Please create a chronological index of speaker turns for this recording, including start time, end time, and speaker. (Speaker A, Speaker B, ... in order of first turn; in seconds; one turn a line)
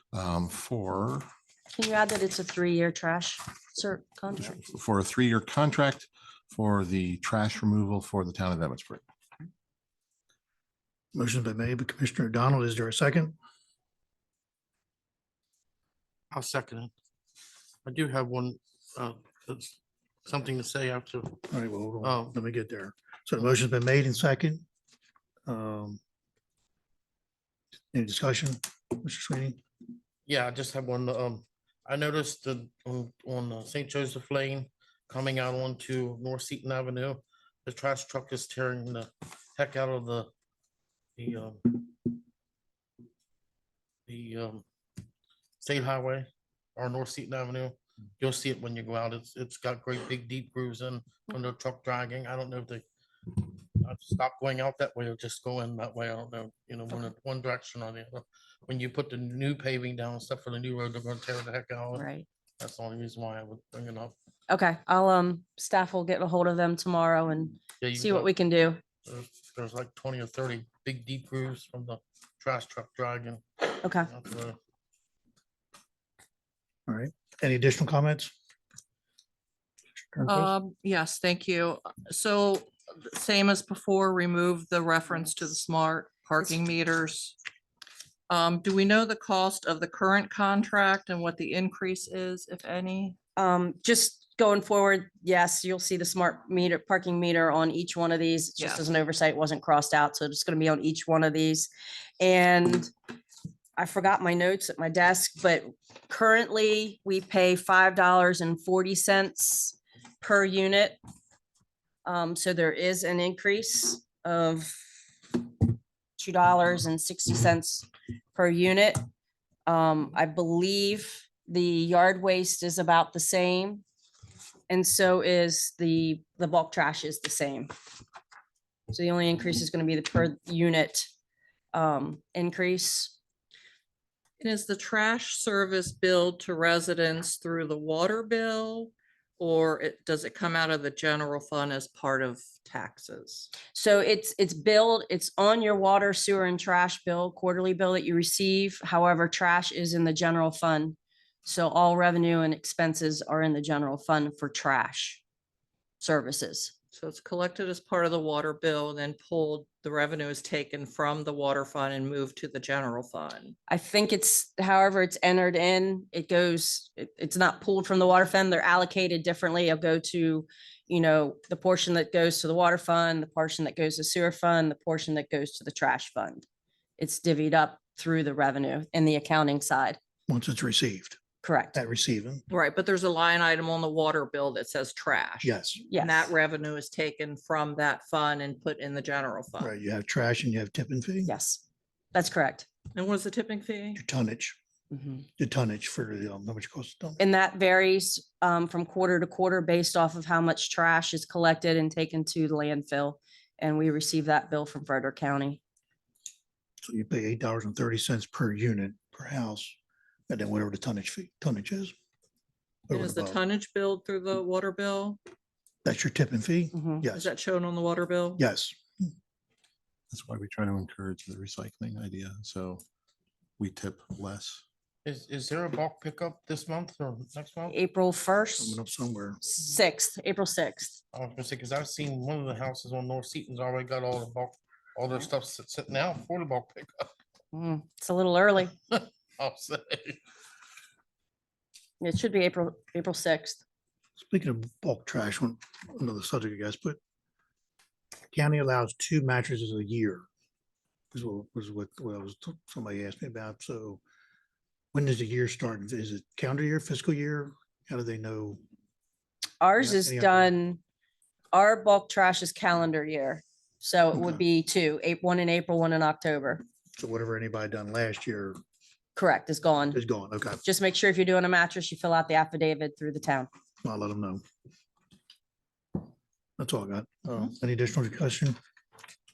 Speaker A: 0.1-1.3
Speaker B: 1.7-4.6
Speaker A: 4.5-9.0
Speaker C: 11.1-13.3
Speaker D: 16.3-16.9
Speaker D: 17.9-21.5
Speaker C: 21.5-24.6
Speaker D: 22.0-22.3
Speaker C: 25.5-26.0
Speaker C: 27.9-29.6
Speaker D: 30.3-40.3
Speaker D: 41.2-42.1
Speaker D: 44.1-44.6
Speaker D: 45.6-62.1
Speaker B: 62.0-62.3
Speaker D: 62.6-64.1
Speaker B: 64.5-68.8
Speaker D: 67.8-68.3
Speaker D: 69.0-74.6
Speaker B: 73.8-74.1
Speaker C: 76.9-78.3
Speaker C: 80.0-80.5
Speaker E: 80.3-87.4
Speaker E: 88.3-93.2
Speaker B: 93.4-101.7
Speaker B: 102.2-102.9
Speaker B: 103.8-111.0
Speaker B: 112.0-114.8
Speaker B: 116.2-119.0
Speaker B: 119.7-123.8
Speaker B: 124.7-127.7
Speaker B: 128.9-131.1
Speaker B: 131.7-133.2
Speaker E: 134.4-143.5
Speaker B: 143.7-155.2
Speaker B: 156.0-156.7
Speaker E: 156.9-163.6
Speaker B: 163.7-176.4
Speaker B: 177.0-180.0
Speaker C: 180.3-181.2
Speaker B: 181.4-181.8
Speaker C: 181.7-182.4
Speaker E: 182.5-189.7
Speaker C: 185.4-185.8
Speaker B: 185.9-186.3
Speaker C: 189.6-191.3
Speaker B: 191.3-191.6
Speaker B: 192.1-192.7
Speaker E: 192.9-194.0
Speaker C: 193.9-194.6
Speaker B: 194.9-195.2
Speaker C: 195.4-197.2
Speaker B: 197.2-205.6
Speaker C: 206.8-209.8
Speaker C: 210.3-211.9
Speaker C: 212.9-213.4
Speaker E: 212.9-215.2
Speaker C: 215.8-217.3
Speaker B: 216.7-217.0
Speaker E: 217.1-218.4
Speaker C: 218.4-219.1
Speaker A: 220.1-222.8
Speaker A: 223.6-224.6
Speaker D: 225.1-227.8
Speaker B: 227.7-228.8
Speaker C: 228.6-229.4
Speaker B: 229.4-231.0
Speaker D: 231.1-237.1
Speaker B: 237.5-238.7
Speaker D: 238.9-240.2
Speaker B: 242.0-243.6
Speaker C: 244.2-247.0
Speaker C: 248.3-250.3
Speaker C: 251.1-254.0
Speaker C: 254.9-258.6
Speaker B: 259.6-260.8
Speaker C: 259.8-260.5
Speaker B: 261.5-266.6
Speaker C: 267.0-268.6
Speaker B: 269.1-270.0
Speaker C: 269.9-270.6
Speaker B: 270.6-273.5
Speaker C: 273.8-274.4
Speaker C: 276.6-278.6